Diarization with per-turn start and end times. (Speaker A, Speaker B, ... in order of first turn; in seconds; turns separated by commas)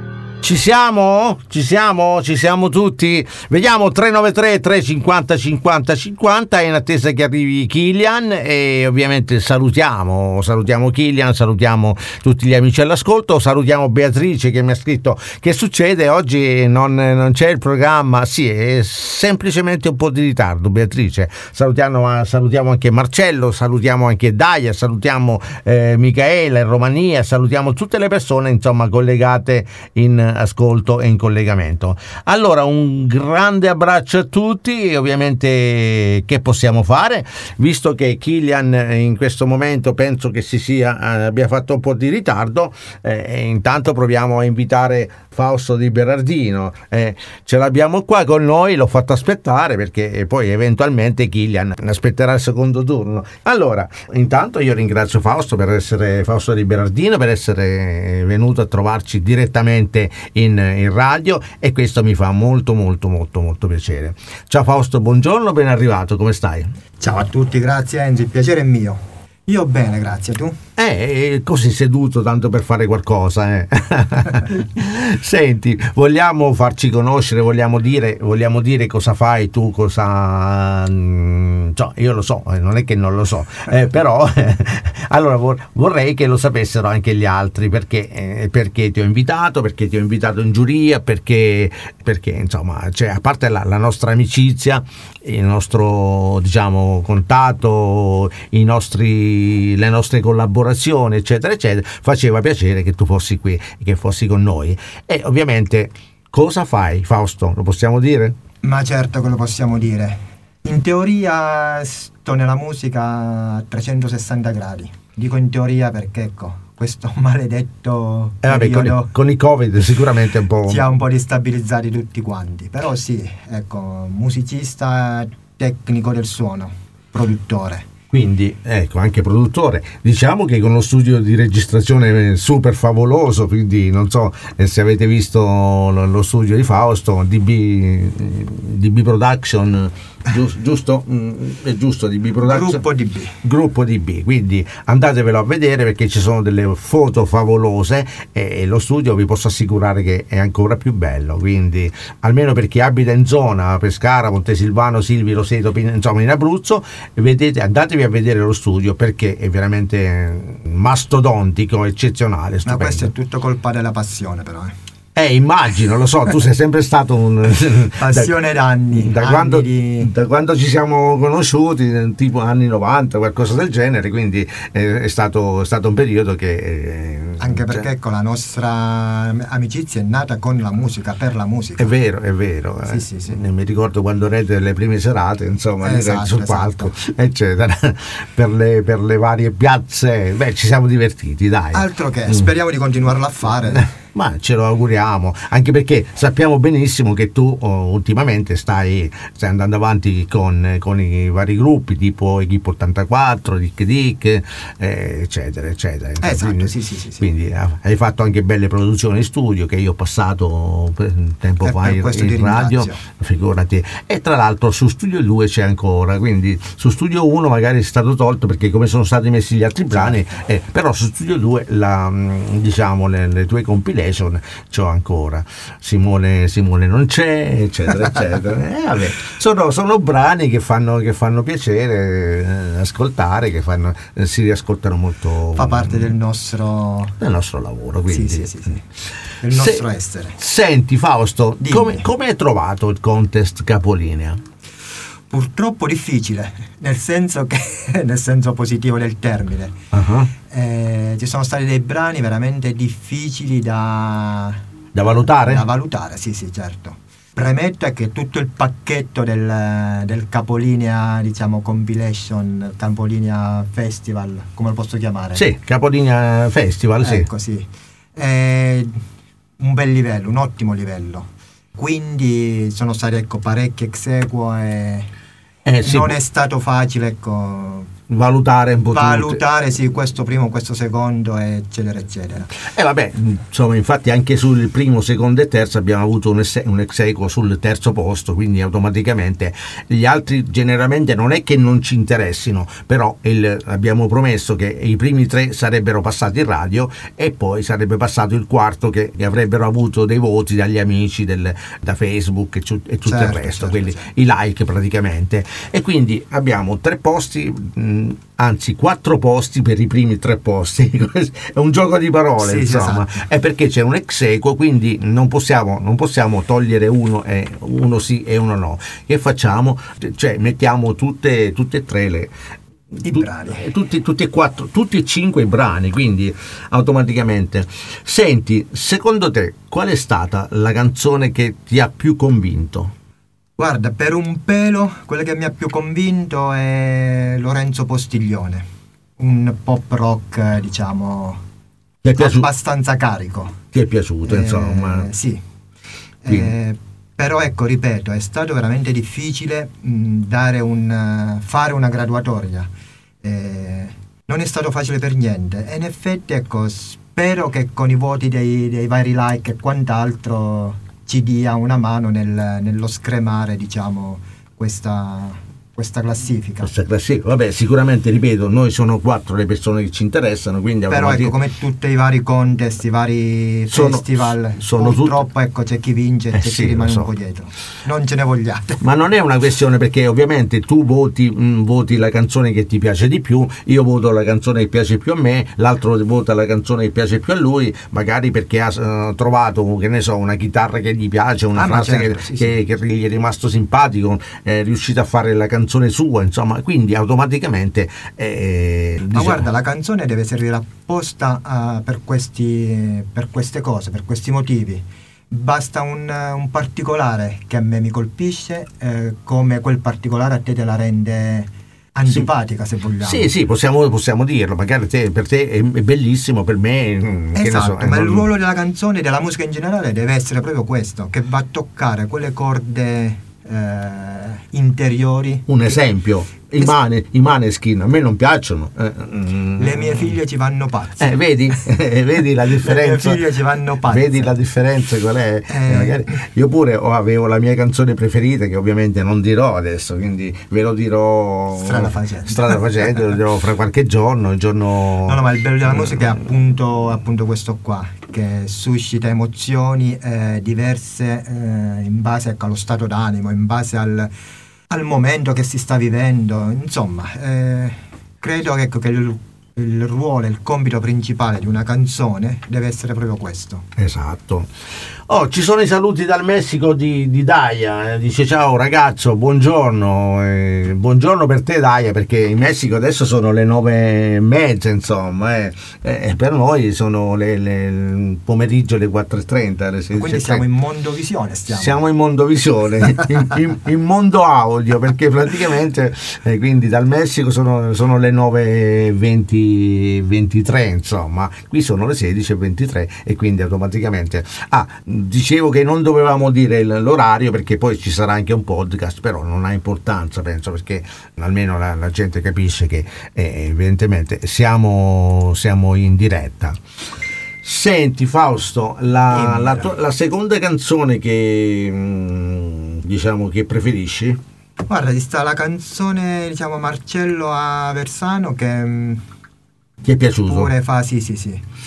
Speaker A: 0.4-66.7, Speaker B: 67.0-70.6, Speaker A: 70.8-108.4, Speaker B: 108.6-119.1, Speaker A: 118.4-120.9, Speaker B: 120.7-127.9, Speaker A: 128.1-142.8, Speaker B: 142.4-143.4, Speaker A: 143.4-163.1, Speaker B: 162.6-164.7, Speaker A: 165.1-168.3, Speaker B: 168.0-170.1, Speaker A: 168.9-177.9, Speaker B: 177.4-181.9, Speaker A: 181.8-192.5, Speaker B: 182.8-183.4, Speaker B: 185.8-186.9, Speaker B: 191.7-193.9, Speaker A: 193.8-236.1, Speaker B: 206.2-207.3, Speaker B: 211.6-213.0, Speaker B: 219.9-220.3, Speaker B: 235.6-237.2, Speaker A: 237.2-238.8, Speaker B: 238.1-238.8, Speaker B: 239.4-240.4, Speaker A: 239.4-239.8, Speaker A: 240.4-244.4, Speaker B: 241.6-242.1, Speaker B: 245.3-249.7, Speaker A: 249.9-250.3, Speaker B: 250.5-254.6, Speaker A: 254.9-255.7, Speaker B: 255.2-265.4, Speaker A: 265.3-267.3, Speaker B: 267.0-269.0, Speaker B: 269.6-275.1, Speaker A: 275.6-276.2, Speaker B: 275.8-277.9, Speaker A: 278.1-279.4, Speaker B: 278.9-282.5, Speaker A: 282.5-322.3, Speaker B: 303.0-304.0, Speaker B: 312.4-313.2, Speaker B: 323.0-323.6, Speaker A: 323.0-332.9, Speaker B: 333.6-338.7, Speaker B: 339.2-341.4, Speaker A: 342.0-342.5, Speaker B: 342.1-343.6, Speaker A: 343.7-345.1, Speaker B: 344.2-345.4, Speaker B: 346.2-352.7, Speaker A: 346.2-346.5, Speaker B: 353.2-366.7, Speaker A: 366.6-371.4, Speaker B: 370.9-378.8, Speaker A: 373.7-375.3, Speaker A: 376.3-377.1, Speaker A: 378.8-399.4, Speaker B: 391.5-392.6, Speaker B: 399.1-413.3, Speaker A: 413.0-418.3, Speaker B: 417.3-425.8, Speaker A: 425.5-430.1, Speaker B: 429.6-431.2, Speaker A: 431.0-433.3, Speaker B: 432.6-434.3, Speaker A: 433.9-446.0, Speaker B: 435.5-436.2, Speaker B: 441.5-442.6, Speaker B: 445.1-454.1, Speaker B: 454.7-463.7, Speaker A: 463.8-464.5, Speaker A: 465.1-480.4, Speaker B: 479.9-481.8, Speaker A: 481.5-506.6, Speaker A: 507.4-514.2, Speaker B: 509.1-509.7, Speaker B: 514.7-519.0, Speaker A: 519.8-520.5, Speaker B: 520.2-521.4